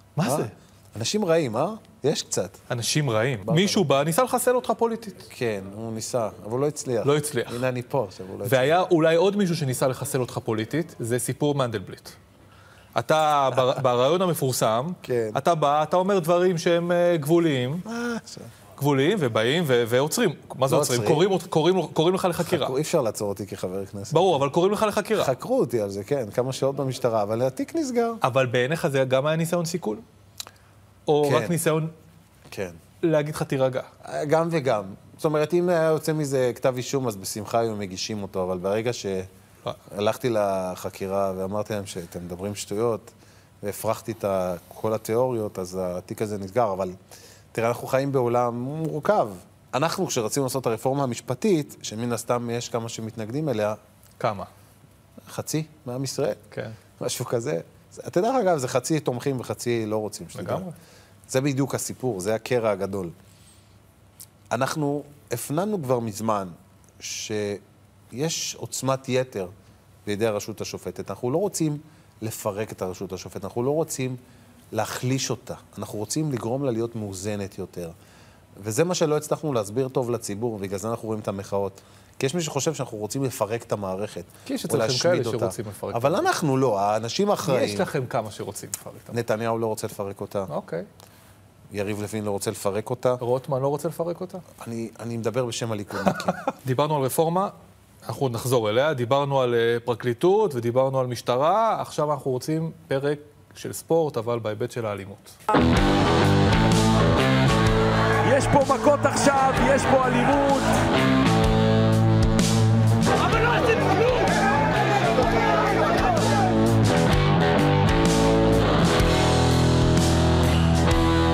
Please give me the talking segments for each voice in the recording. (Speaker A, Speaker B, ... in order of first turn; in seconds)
Speaker A: 0.2-0.5, 2.7-5.3, 7.0-7.6, 8.5-12.2, 12.9-17.9, 18.8-22.7, 24.1-25.3, 28.2-30.0, 31.1-31.9, 33.0-33.9, 54.2-54.5, 60.4-60.7, 84.5-86.3, 87.5-89.2, 90.5-90.9, 93.2-94.4, 96.1-97.5, 98.0-105.4
Speaker B: 0.2-2.6, 3.5-3.9, 5.3-8.8, 15.0-15.4, 17.9-18.5, 20.7-21.3, 22.4-24.4, 25.2-28.2, 31.2-31.6, 32.5-32.8, 34.0-39.3, 39.9-47.0, 47.5-53.8, 55.3-56.4, 57.0-60.7, 61.3-63.1, 64.5-69.5, 70.0-74.2, 74.7-77.9, 78.6-87.9, 89.1-90.5, 91.7-93.2, 94.6-96.4
Speaker C: 108.2-110.7